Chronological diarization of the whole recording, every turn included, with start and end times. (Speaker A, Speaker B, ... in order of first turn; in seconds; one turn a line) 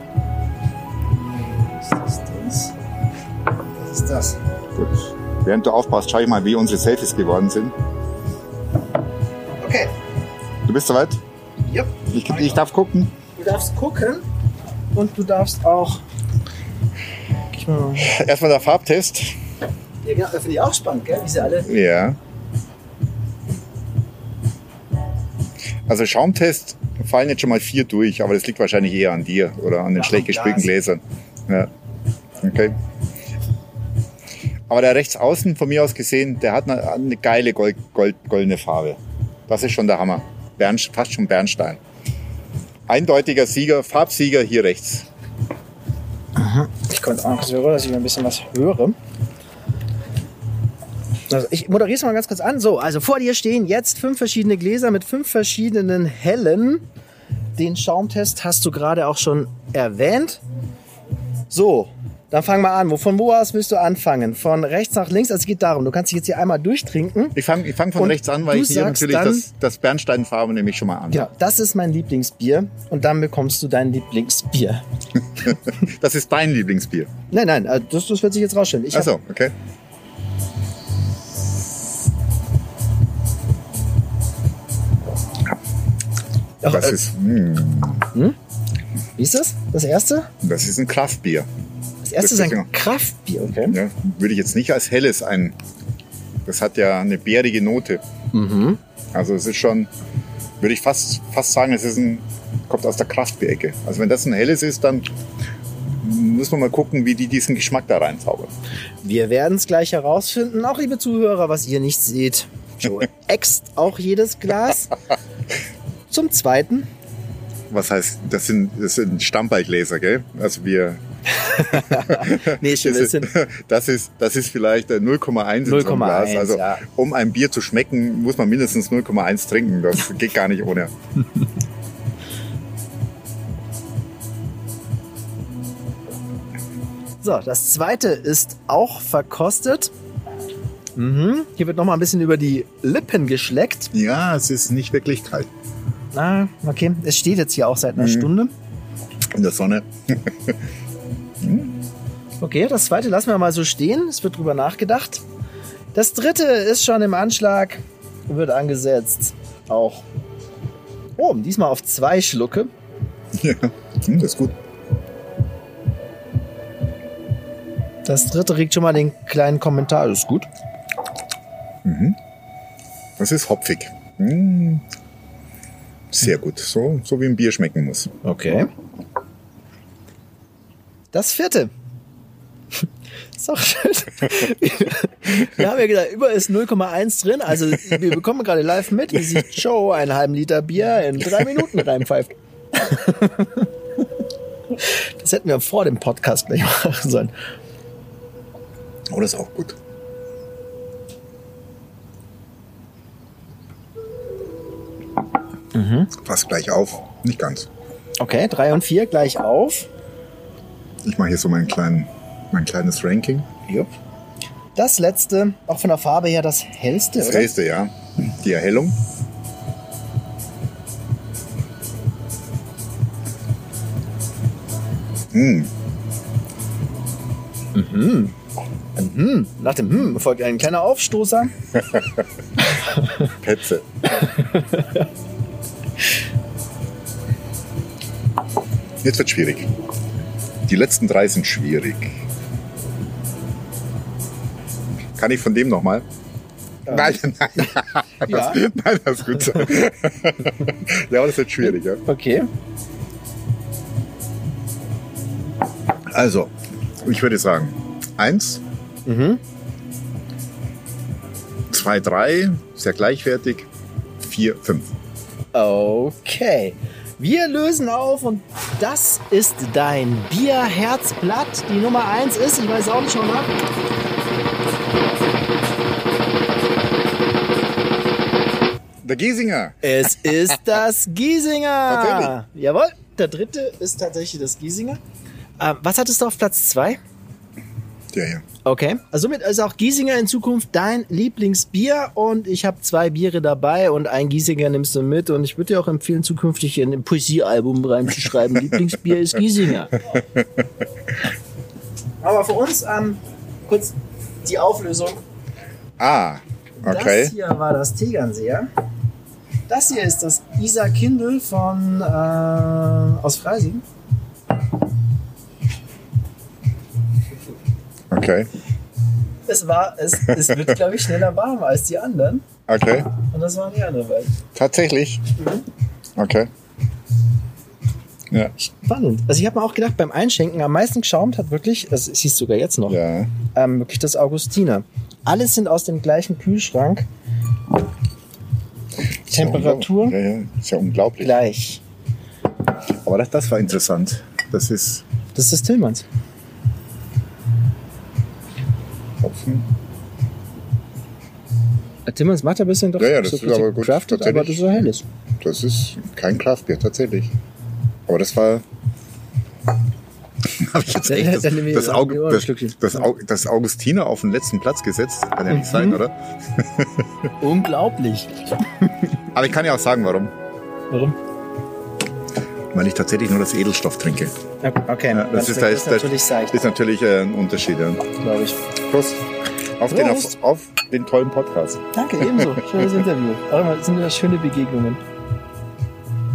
Speaker A: 1.8-2.7
Speaker A: 3.8-4.4
Speaker B: 4.7-7.7
Speaker A: 9.6-9.9
Speaker B: 10.7-11.2
Speaker A: 11.6-12.6
Speaker B: 12.1-13.1
Speaker A: 13.4-14.2
Speaker A: 14.9-16.0
Speaker A: 17.5-18.1
Speaker B: 18.0-19.3
Speaker A: 20.0-21.7
Speaker B: 21.6-22.2
Speaker B: 25.9-31.7
Speaker A: 29.9-30.7
Speaker B: 32.4-32.7
Speaker B: 34.7-41.8
Speaker B: 42.9-45.1
Speaker A: 46.4-49.0
Speaker A: 51.3-56.9
Speaker A: 57.5-60.4
Speaker A: 61.5-67.3
Speaker B: 67.3-71.3
Speaker A: 68.0-69.5
Speaker A: 71.1-74.8
Speaker B: 75.4-77.1
Speaker A: 77.3-79.1
Speaker B: 78.9-79.5
Speaker A: 86.6-87.0
Speaker B: 86.6-88.1
Speaker A: 89.2-90.3
Speaker B: 90.4-91.5
Speaker A: 92.0-93.8
Speaker B: 92.2-92.7
Speaker B: 93.7-95.6
Speaker B: 96.5-98.0
Speaker A: 98.3-98.8
Speaker B: 99.1-99.9
Speaker B: 100.6-105.1
Speaker B: 106.0-108.5
Speaker A: 109.0-115.0
Speaker A: 116.1-116.9
Speaker B: 117.7-130.9
Speaker A: 121.4-123.3
Speaker A: 125.6-126.8
Speaker A: 137.2-139.9
Speaker A: 140.9-143.9
Speaker B: 143.9-145.5
Speaker A: 146.1-148.5
Speaker B: 148.0-148.3
Speaker B: 149.3-150.6
Speaker B: 151.4-151.8
Speaker A: 152.4-155.2
Speaker A: 155.9-160.0
Speaker A: 161.2-162.7
Speaker B: 163.4-164.5
Speaker A: 168.0-170.5
Speaker B: 171.8-172.2
Speaker B: 173.2-174.8
Speaker B: 176.1-178.1
Speaker A: 178.2-178.7
Speaker A: 181.1-181.7
Speaker A: 183.4-193.7
Speaker A: 194.8-197.3
Speaker B: 199.1-199.8
Speaker A: 205.7-206.1
Speaker B: 206.2-207.7
Speaker A: 208.2-209.9
Speaker B: 211.0-213.4
Speaker A: 214.8-217.5
Speaker B: 217.2-219.0
Speaker B: 225.3-225.7
Speaker A: 227.7-228.3
Speaker A: 228.9-231.5
Speaker B: 233.3-234.3
Speaker A: 234.2-235.0
Speaker B: 239.0-239.7
Speaker B: 240.7-242.2
Speaker B: 245.2-246.0
Speaker A: 246.8-247.7
Speaker B: 246.9-252.0
Speaker A: 248.2-248.6
Speaker A: 252.0-252.5
Speaker B: 256.1-258.6
Speaker A: 259.1-259.4
Speaker B: 261.7-263.7
Speaker B: 264.2-264.9
Speaker A: 265.5-273.5
Speaker B: 279.0-279.8
Speaker A: 279.8-285.0
Speaker B: 281.9-282.3
Speaker A: 285.6-287.0
Speaker B: 288.1-288.4
Speaker A: 288.6-300.0
Speaker A: 302.2-305.2
Speaker B: 306.0-307.3
Speaker A: 306.8-308.7
Speaker A: 309.7-313.8
Speaker B: 318.1-318.5
Speaker A: 319.5-322.4
Speaker B: 322.7-323.1
Speaker A: 323.2-324.3
Speaker B: 324.5-325.2
Speaker A: 325.4-325.6
Speaker B: 326.2-326.5
Speaker A: 328.6-337.1
Speaker B: 332.9-333.3
Speaker B: 339.3-341.4
Speaker A: 339.3-340.1
Speaker A: 341.2-341.8
Speaker B: 343.1-345.0
Speaker A: 345.3-346.0
Speaker B: 349.2-349.6
Speaker A: 352.1-355.1
Speaker B: 353.0-354.8
Speaker B: 355.4-357.3
Speaker B: 358.1-358.6
Speaker B: 360.4-366.9
Speaker A: 361.1-362.9
Speaker A: 365.5-366.0
Speaker A: 367.4-368.3
Speaker B: 369.3-370.3
Speaker A: 370.9-371.1
Speaker B: 372.7-374.3
Speaker A: 374.6-376.6
Speaker B: 375.1-378.1
Speaker A: 378.2-378.6
Speaker B: 378.9-379.2
Speaker B: 379.8-382.8
Speaker A: 379.9-380.3
Speaker A: 381.9-385.0